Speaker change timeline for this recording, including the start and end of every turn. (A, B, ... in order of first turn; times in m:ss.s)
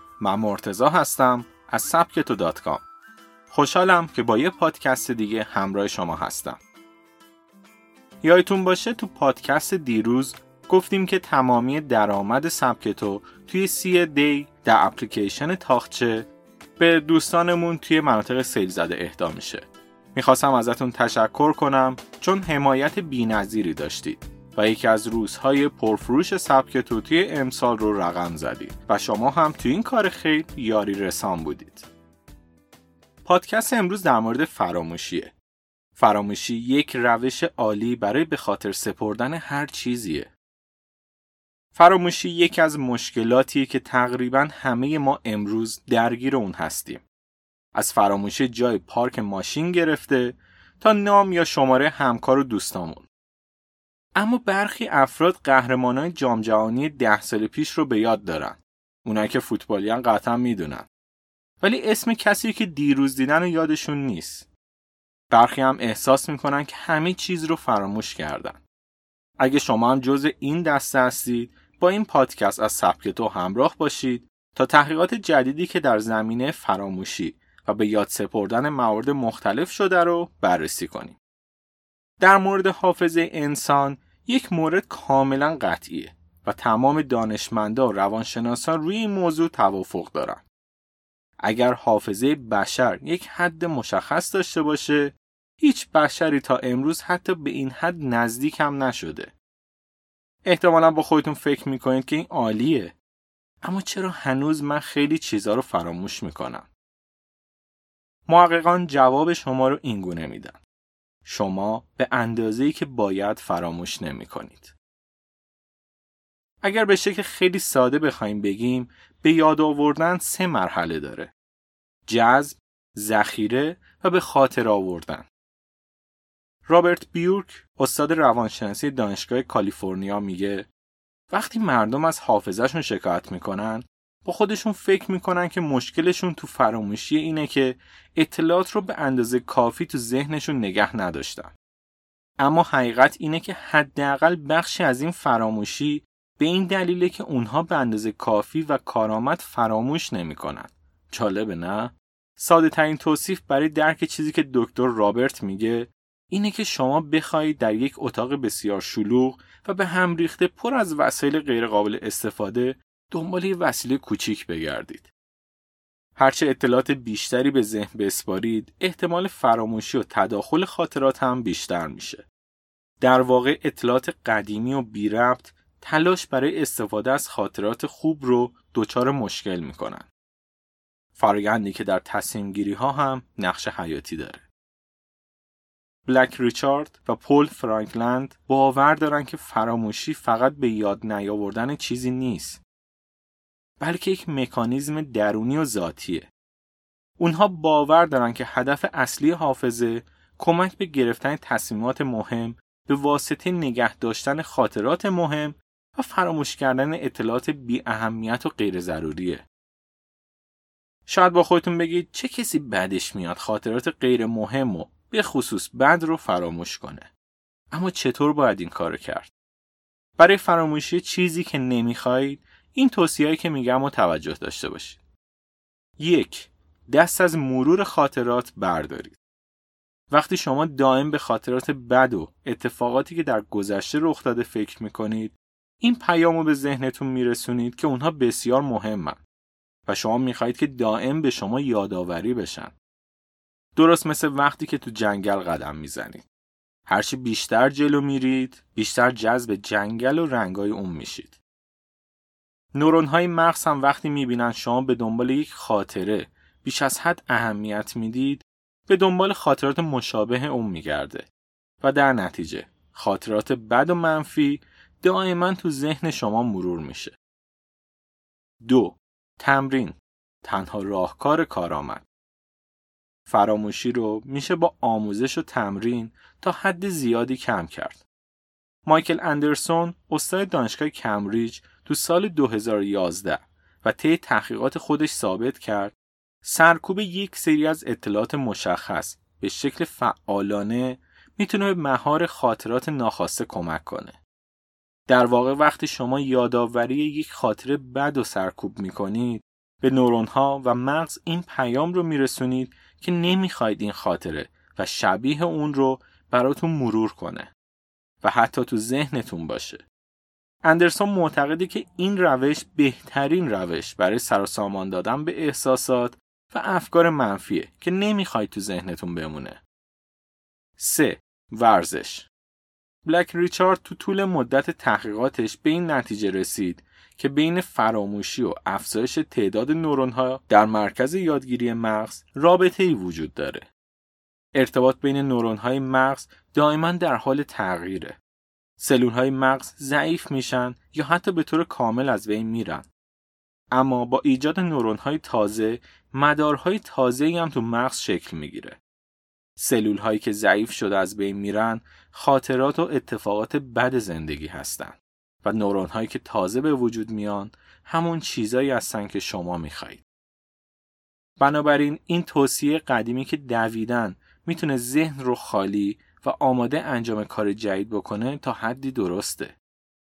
0:00.2-0:02.8 A
0:03.5-0:06.6 A
0:08.2-0:16.3 A
0:16.8-0:31.9 A
0:33.2-0:35.3 A
0:36.0-0:40.3 A
0:41.8-0:47.0 A
0:47.8-0:53.1 A
0:54.2-1:00.9 A
1:01.6-1:04.5 A
1:05.3-1:08.6 A
1:09.4-1:21.2 A
1:22.2-1:30.4 A
1:31.4-1:39.3 A
1:40.5-1:42.9 A
1:43.6-1:46.7 A
1:48.3-1:50.6 A
1:51.2-1:54.7 A
1:56.6-2:01.3 A
2:02.1-2:05.3 A
2:06.7-2:10.7 A
2:11.3-2:21.5 A
2:22.4-2:45.1 A
2:46.2-2:52.2 A
2:53.0-3:00.1 A
3:01.2-3:04.5 A
3:06.1-3:12.6 A
3:13.8-3:16.3 A
3:17.2-3:29.4 A
3:31.1-3:37.1 A
3:37.7-3:39.3 A
3:40.2-3:45.0 A
3:46.0-3:49.2 A
3:50.1-3:59.2 A
3:59.9-4:02.7 A
4:03.8-4:06.2 A
4:06.9-4:11.4 A
4:12.8-4:21.3 A
4:21.8-4:27.1 A
4:28.6-4:32.0 A
4:33.3-4:38.0 A
4:38.8-4:54.2 A
4:55.1-5:07.5 A
5:08.2-5:09.8 A
5:10.6-5:19.6 A
5:20.8-5:22.3 A
5:23.0-5:33.7 A
5:34.6-5:38.2 A
5:38.8-5:42.9 A
5:43.7-5:48.8 A
5:49.6-6:00.0 A
6:01.4-6:09.6 A